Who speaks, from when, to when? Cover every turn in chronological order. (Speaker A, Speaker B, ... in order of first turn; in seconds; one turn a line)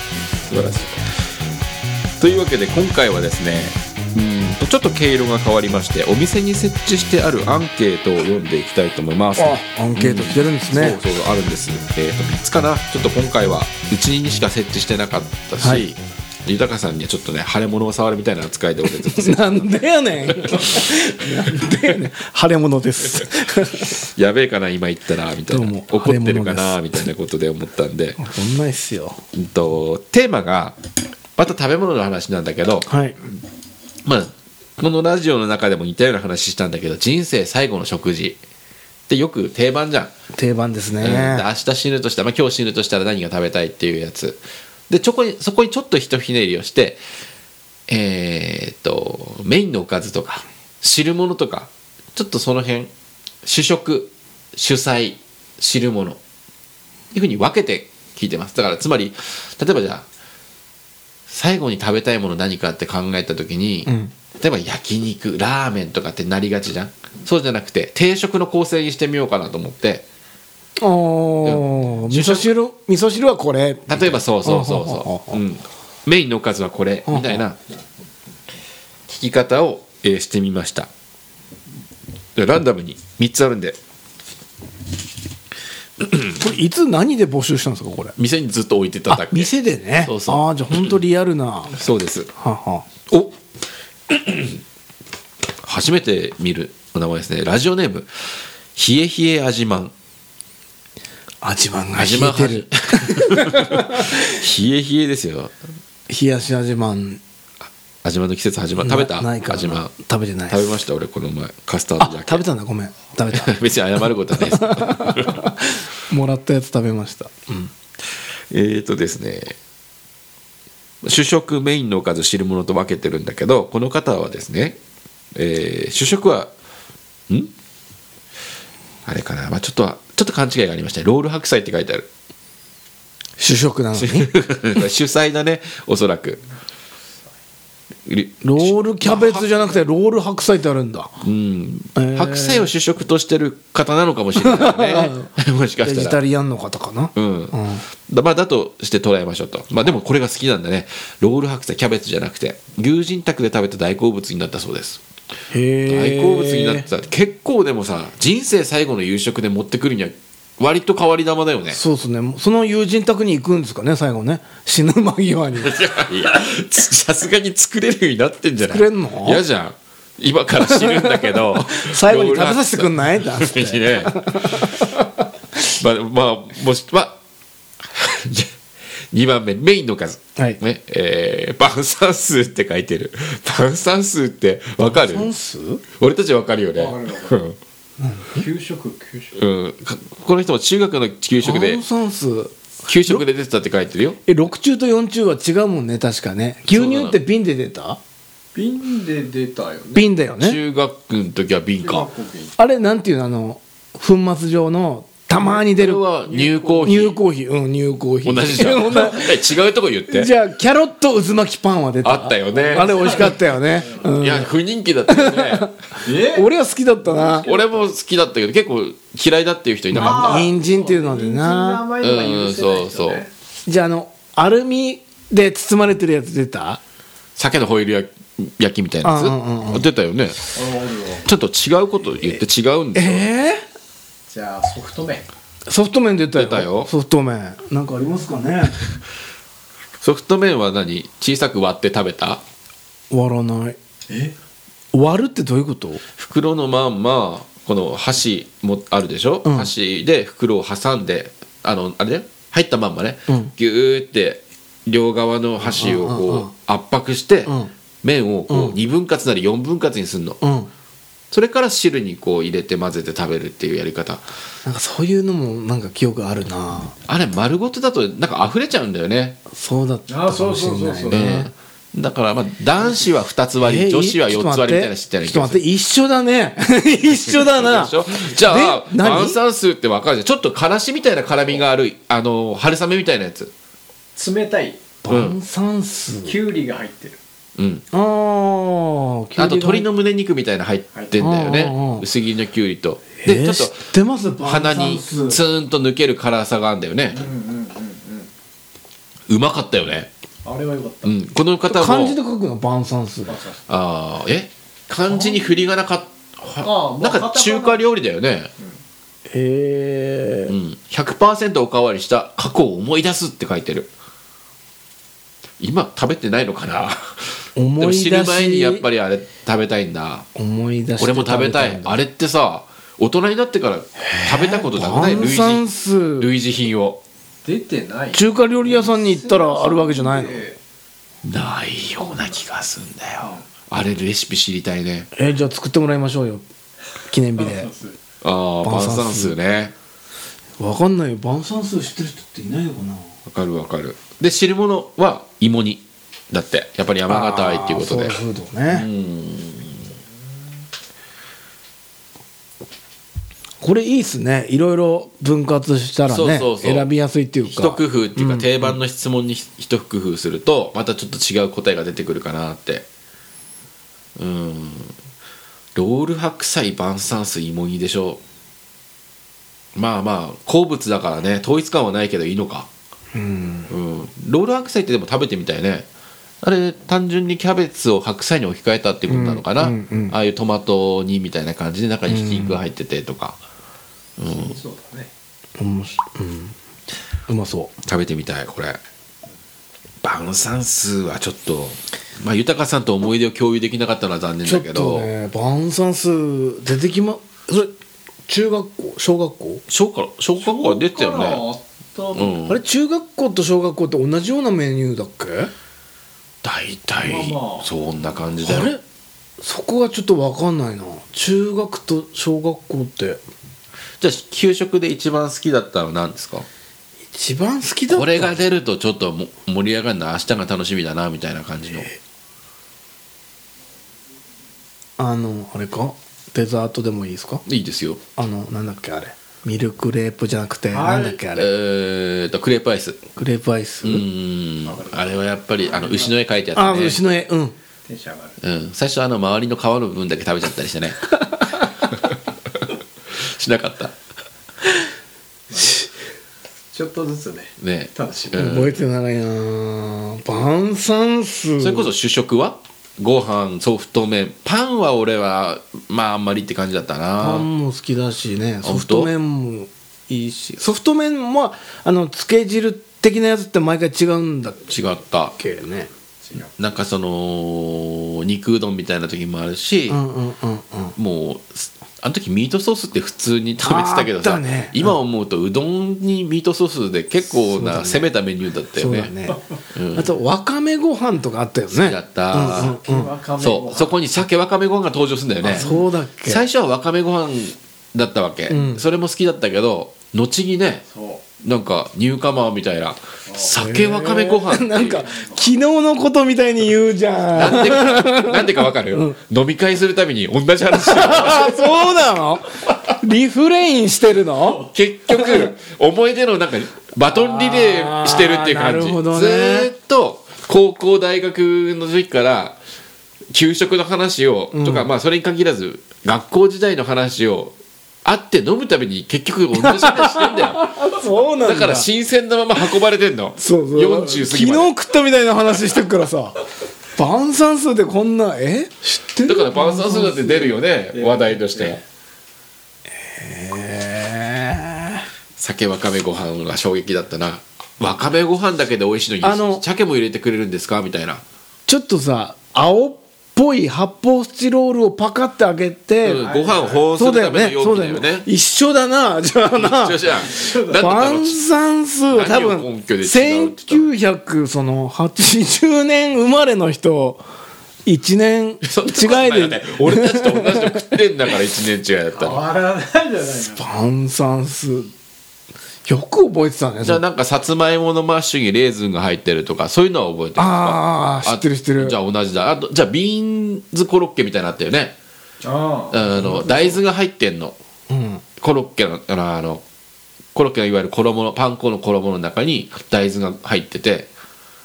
Speaker A: 0.5-1.2
Speaker A: 2.2-19.5
Speaker B: 9.4-11.0
Speaker B: 18.9-23.9
Speaker A: 20.4-20.9
Speaker A: 23.8-28.3
Speaker B: 25.5-27.0
Speaker B: 28.2-29.2
Speaker A: 29.3-30.8
Speaker A: 31.4-32.9
Speaker B: 32.9-33.2
Speaker A: 34.0-38.4
Speaker A: 39.1-40.1
Speaker B: 40.3-41.5
Speaker A: 41.0-47.0
Speaker A: 47.9-52.9
Speaker A: 53.5-56.2
Speaker A: 57.1-60.0
Speaker A: 61.3-70.0
Speaker B: 63.9-64.1
Speaker B: 70.8-75.4
Speaker A: 71.4-72.5
Speaker A: 73.9-77.6
Speaker B: 77.1-77.4
Speaker A: 79.1-80.9
Speaker A: 82.4-83.8
Speaker B: 86.3-88.2
Speaker A: 88.2-90.9
Speaker B: 89.1-91.8
Speaker A: 91.7-92.3
Speaker B: 92.4-92.8
Speaker A: 93.1-93.3
Speaker A: 94.1-94.6
Speaker A: 95.6-98.1
Speaker A: 98.8-99.9
Speaker B: 101.4-104.3
Speaker A: 102.0-105.5
Speaker B: 106.1-107.2
Speaker A: 108.0-109.9
Speaker B: 108.8-110.7
Speaker A: 110.5-112.4
Speaker B: 112.0-117.7
Speaker A: 113.3-115.5
Speaker A: 118.5-119.6
Speaker A: 121.0-124.8
Speaker A: 125.3-126.5
Speaker A: 129.1-132.1
Speaker B: 133.4-134.3
Speaker A: 133.9-136.4
Speaker A: 138.1-139.5
Speaker B: 138.4-141.1
Speaker A: 141.2-146.2
Speaker B: 142.0-142.7
Speaker B: 144.4-145.3
Speaker B: 145.8-147.8
Speaker A: 147.2-155.0
Speaker B: 155.5-156.9
Speaker A: 155.9-161.8
Speaker B: 161.7-165.8
Speaker A: 165.6-174.9
Speaker B: 168.7-169.4
Speaker B: 170.6-175.1
Speaker A: 175.7-177.2
Speaker A: 177.9-178.5
Speaker A: 179.1-185.3
Speaker B: 184.8-185.8
Speaker A: 186.0-187.6
Speaker C: 186.8-187.4
Speaker B: 188.0-188.4
Speaker C: 188.3-189.4
Speaker A: 189.3-191.8
Speaker B: 191.4-192.5
Speaker A: 192.9-194.2
Speaker B: 194.3-198.0
Speaker A: 196.7-197.2
Speaker C: 198.6-200.1
Speaker B: 199.9-200.6
Speaker A: 200.4-202.1
Speaker C: 201.8-202.6
Speaker B: 202.6-206.0
Speaker A: 205.3-207.2
Speaker C: 206.3-207.0
Speaker B: 206.8-209.5
Speaker A: 208.2-210.3
Speaker B: 210.1-214.5
Speaker A: 212.0-213.4
Speaker C: 212.6-214.1
Speaker A: 214.0-215.7
Speaker B: 215.1-217.5
Speaker C: 216.0-216.5
Speaker C: 217.2-217.8
Speaker A: 217.4-220.5
Speaker B: 219.9-221.8
Speaker C: 219.9-223.3
Speaker A: 222.0-223.3
Speaker B: 223.7-226.8
Speaker A: 227.4-230.4
Speaker B: 229.0-229.9
Speaker C: 230.5-231.3
Speaker A: 231.2-233.3
Speaker B: 232.9-233.7
Speaker C: 234.3-235.3
Speaker B: 235.7-238.8
Speaker A: 236.4-236.9
Speaker A: 240.0-242.4
Speaker B: 243.1-243.8
Speaker C: 244.1-244.3
Speaker B: 244.9-246.0
Speaker A: 246.2-260.4
Speaker B: 249.4-249.7
Speaker B: 253.3-253.5
Speaker B: 255.6-256.5
Speaker B: 257.5-257.7
Speaker B: 258.5-258.8
Speaker B: 260.4-260.7
Speaker A: 261.3-264.2
Speaker B: 264.6-266.9
Speaker A: 267.1-269.4
Speaker B: 269.5-271.5
Speaker C: 270.1-271.5
Speaker A: 271.1-275.6
Speaker B: 273.6-279.4
Speaker A: 277.3-283.5
Speaker C: 284.1-284.8
Speaker B: 285.0-286.4
Speaker A: 285.1-285.4
Speaker C: 286.2-287.2
Speaker A: 287.6-287.9
Speaker B: 287.9-289.9
Speaker A: 289.4-293.9
Speaker B: 291.2-292.1
Speaker B: 293.2-295.4
Speaker A: 294.4-297.2
Speaker C: 297.1-298.3
Speaker A: 299.3-300.1
Speaker C: 300.4-301.1
Speaker A: 301.0-302.2
Speaker B: 301.7-303.4
Speaker C: 303.3-303.6
Speaker A: 303.7-308.5
Speaker C: 306.6-307.9
Speaker B: 309.3-310.5
Speaker A: 310.5-313.9
Speaker A: 315.6-320.3
Speaker B: 317.6-318.9
Speaker B: 320.4-322.0
Speaker A: 321.0-325.6
Speaker B: 324.1-326.3
Speaker A: 326.2-327.0
Speaker C: 327.4-330.6
Speaker B: 328.1-330.4
Speaker A: 331.2-335.1
Speaker B: 335.1-336.4
Speaker B: 337.1-337.7
Speaker C: 337.4-338.0
Speaker A: 338.2-339.7
Speaker B: 338.6-339.4
Speaker B: 340.6-343.1
Speaker A: 343.3-349.9
Speaker B: 347.1-348.9
Speaker B: 353.6-358.8
Speaker A: 356.1-356.9
Speaker A: 357.4-362.9
Speaker A: 364.2-364.9
Speaker A: 365.8-368.2
Speaker A: 369.8-372.7
Speaker B: 373.1-373.7
Speaker A: 373.7-375.9
Speaker A: 376.4-383.4
Speaker B: 379.1-380.2
Speaker B: 382.1-382.6
Speaker A: 384.2-384.6
Speaker C: 384.3-385.1
Speaker B: 385.6-386.6
Speaker B: 387.3-387.7
Speaker A: 387.9-388.8
Speaker A: 390.0-395.1
Speaker B: 394.4-397.7
Speaker B: 398.3-399.6
Speaker A: 399.7-401.4
Speaker C: 400.4-402.4
Speaker A: 402.1-402.6
Speaker B: 402.5-405.5
Speaker A: 406.4-408.7
Speaker C: 407.0-407.7
Speaker B: 408.4-408.8
Speaker B: 409.4-413.2
Speaker A: 414.0-416.5
Speaker B: 417.1-418.4
Speaker A: 417.9-421.9
Speaker B: 425.0-427.4
Speaker A: 427.5-428.0
Speaker B: 428.2-431.5
Speaker C: 430.7-431.2
Speaker A: 431.3-433.0
Speaker B: 433.1-434.0
Speaker A: 433.8-437.0
Speaker C: 434.6-436.2
Speaker B: 436.6-437.6
Speaker C: 437.9-438.4
Speaker A: 438.4-441.1
Speaker A: 443.1-443.9
Speaker C: 445.5-445.9
Speaker C: 446.7-448.5
Speaker A: 447.6-448.8
Speaker B: 448.3-451.9
Speaker A: 451.6-457.5
Speaker B: 457.2-464.7
Speaker A: 458.6-459.1
Speaker A: 464.7-465.4
Speaker B: 465.4-465.9
Speaker C: 466.2-466.5
Speaker A: 466.6-470.0
Speaker B: 469.9-471.0
Speaker A: 471.0-479.1
Speaker B: 473.6-475.0
Speaker B: 477.4-478.1
Speaker B: 478.8-479.4
Speaker A: 479.7-480.1
Speaker B: 479.9-483.1
Speaker A: 481.7-482.8
Speaker C: 482.4-484.0
Speaker A: 483.4-485.7
Speaker B: 485.4-486.4
Speaker C: 485.4-485.9
Speaker A: 486.3-490.8
Speaker B: 488.5-488.8
Speaker C: 490.9-491.2
Speaker A: 491.4-495.1
Speaker C: 493.3-493.5
Speaker B: 493.6-499.2
Speaker C: 495.1-495.4
Speaker A: 497.3-501.9
Speaker B: 500.7-505.4
Speaker A: 504.7-512.6
Speaker B: 507.1-509.7
Speaker A: 513.3-520.9
Speaker B: 514.5-514.9
Speaker B: 519.5-521.9
Speaker A: 521.4-524.7
Speaker B: 523.4-526.4
Speaker B: 527.0-530.6
Speaker A: 529.3-531.8
Speaker C: 530.9-531.8
Speaker B: 533.0-535.1
Speaker A: 535.4-541.2
Speaker B: 539.2-539.6
Speaker B: 541.7-546.2
Speaker A: 546.0-548.3
Speaker C: 546.1-546.9
Speaker B: 547.0-557.2
Speaker A: 549.5-551.4
Speaker C: 550.2-551.1
Speaker A: 552.1-553.9
Speaker B: 557.9-560.9
Speaker A: 558.6-562.4
Speaker C: 562.1-563.7
Speaker B: 563.5-564.9
Speaker B: 565.9-567.0
Speaker A: 566.8-575.0
Speaker B: 570.4-572.0
Speaker C: 575.4-576.1
Speaker A: 575.9-577.6
Speaker B: 576.1-576.8
Speaker B: 577.9-578.2
Speaker A: 578.4-579.6
Speaker A: 580.3-584.1